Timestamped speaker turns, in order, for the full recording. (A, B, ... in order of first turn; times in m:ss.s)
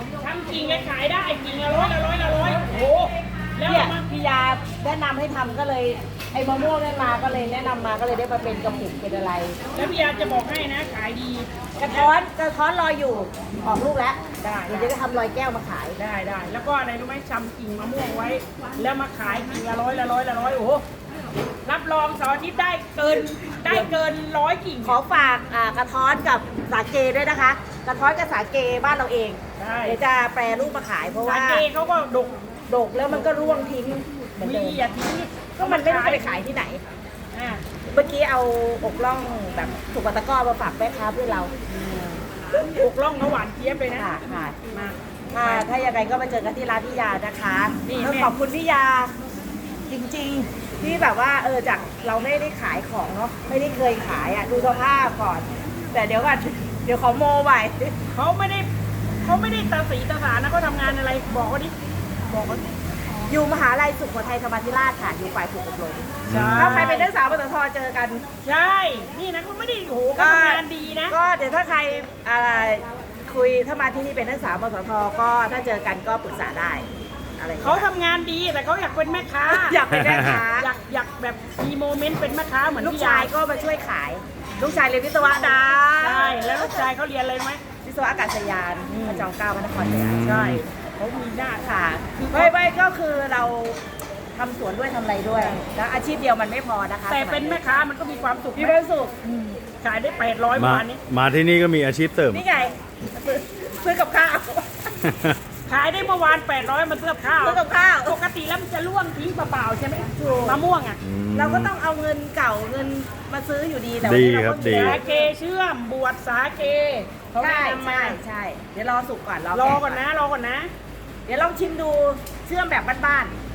0:00.2-0:04.0 A
0:03.6-0:09.6 B
0:09.7-0:12.1 A
0:11.8-0:16.0 B
0:14.4-0:14.9 A
0:16.0-0:20.8 A
0:21.6-0:25.0 A
0:24.8-0:31.7 B
0:29.6-0:30.0 A
0:31.2-0:32.4 A
0:32.7-0:34.8 B
0:34.4-0:36.3 A
0:35.6-0:36.8 B
0:37.3-0:37.6 A
0:37.9-0:41.5 B
0:41.7-0:42.2 A
0:42.5-0:42.8 B
0:42.8-0:44.2 A
0:44.0-0:44.6 B
0:44.7-0:45.7 A
0:45.3-0:49.1 B
0:47.8-0:48.3 A
0:49.9-0:57.9 B
0:58.1-0:58.7 A
0:59.2-1:01.7 A
1:02.3-1:02.6 A
1:03.3-1:08.2 B
1:06.2-1:07.1 A
1:06.3-1:06.9 C
1:08.4-1:11.1 A
1:10.2-1:17.9 B
1:17.6-1:23.3 A
1:19.4-1:20.7 B
1:19.9-1:20.4 C
1:22.8-1:26.4 B
1:26.0-1:27.6 A
1:27.8-1:30.4 B
1:29.8-1:30.6 C
1:30.2-1:32.5 A
1:31.6-1:33.8 B
1:34.3-1:37.6 B
1:35.3-1:35.6 A
1:37.1-1:38.8 A
1:38.5-1:39.6 B
1:39.4-1:41.0 A
1:40.6-1:42.4 C
1:42.3-1:44.8 B
1:45.0-1:45.4 C
1:45.6-1:51.0 A
1:47.4-1:48.2 B
1:50.1-1:50.6 B
1:51.0-1:51.7 C
1:51.3-1:55.3 B
1:54.0-1:55.0 C
1:54.7-1:58.2 A
1:57.4-2:00.0 B
1:59.5-2:00.7 A
2:01.2-2:03.3 B